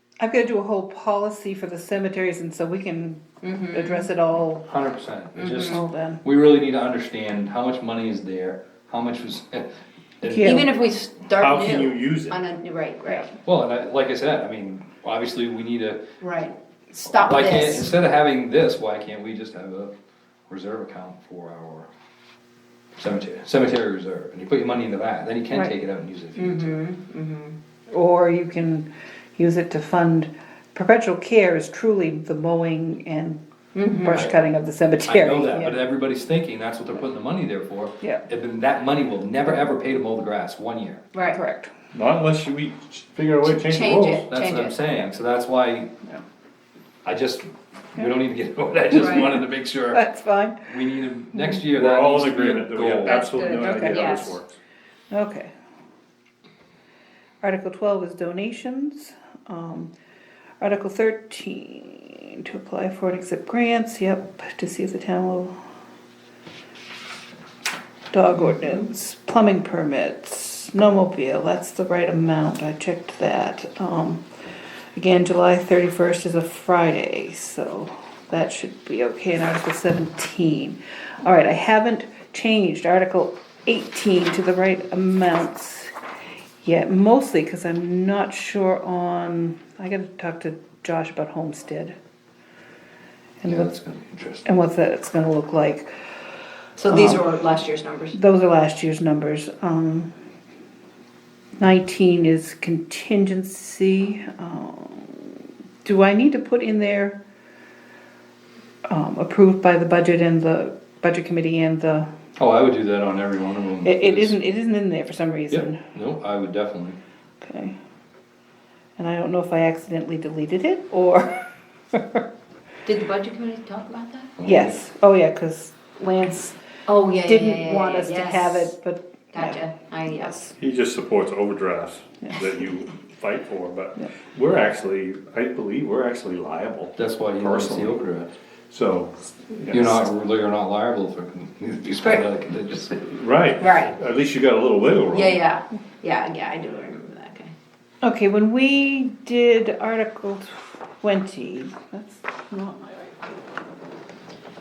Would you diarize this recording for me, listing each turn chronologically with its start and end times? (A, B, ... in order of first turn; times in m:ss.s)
0:00.2-0:04.7 A
0:03.4-0:04.1 B
0:04.7-0:09.7 C
0:05.3-0:05.8 B
0:05.6-0:06.2 A
0:10.2-0:10.7 C
0:10.3-0:10.7 A
0:10.4-0:13.4 B
0:11.3-0:12.4 D
0:13.4-0:16.0 C
0:16.2-0:17.9 B
0:17.1-0:19.9 C
0:20.5-0:21.9 C
0:23.0-0:26.8 C
0:26.4-0:27.6 B
0:27.9-0:35.8 A
0:33.7-0:34.2 B
0:35.0-0:41.0 C
0:41.1-0:41.4 B
0:41.3-0:41.7 A
0:41.9-0:44.3 D
0:43.4-0:44.8 B
0:44.3-0:45.9 C
0:47.0-0:50.0 C
0:48.9-0:49.4 B
0:49.0-0:49.4 A
0:49.9-0:50.7 A
0:50.6-0:53.6 C
0:51.7-0:54.6 D
0:53.0-0:54.4 B
0:53.5-0:54.4 A
0:55.1-0:55.5 A
0:57.4-0:59.9 A
1:00.6-1:05.5 A
1:08.1-1:14.2 A
1:14.9-1:25.9 A
1:26.6-1:31.9 A
1:33.4-1:33.7 A
1:33.4-1:34.4 C
1:34.4-1:35.9 A
1:36.8-1:38.2 B
1:36.9-1:37.3 A
1:38.1-1:40.1 A
1:41.6-1:47.2 A
1:48.9-1:52.1 A
1:52.4-1:54.4 C
1:53.8-1:55.8 A
1:55.5-1:57.0 C
1:57.4-1:57.7 A
1:59.0-2:01.3 A
2:01.9-2:02.2 A
2:02.8-2:04.3 B
2:04.4-2:04.8 C
2:04.4-2:06.6 A
2:06.9-2:08.7 B
2:07.2-2:10.5 A
2:09.3-2:10.4 B
2:10.6-2:18.0 D
2:17.0-2:18.3 C
2:18.7-2:19.9 D
2:19.7-2:23.1 C
2:23.1-2:25.4 D
2:23.6-2:23.9 B
2:25.1-2:27.5 B
2:28.0-2:33.1 A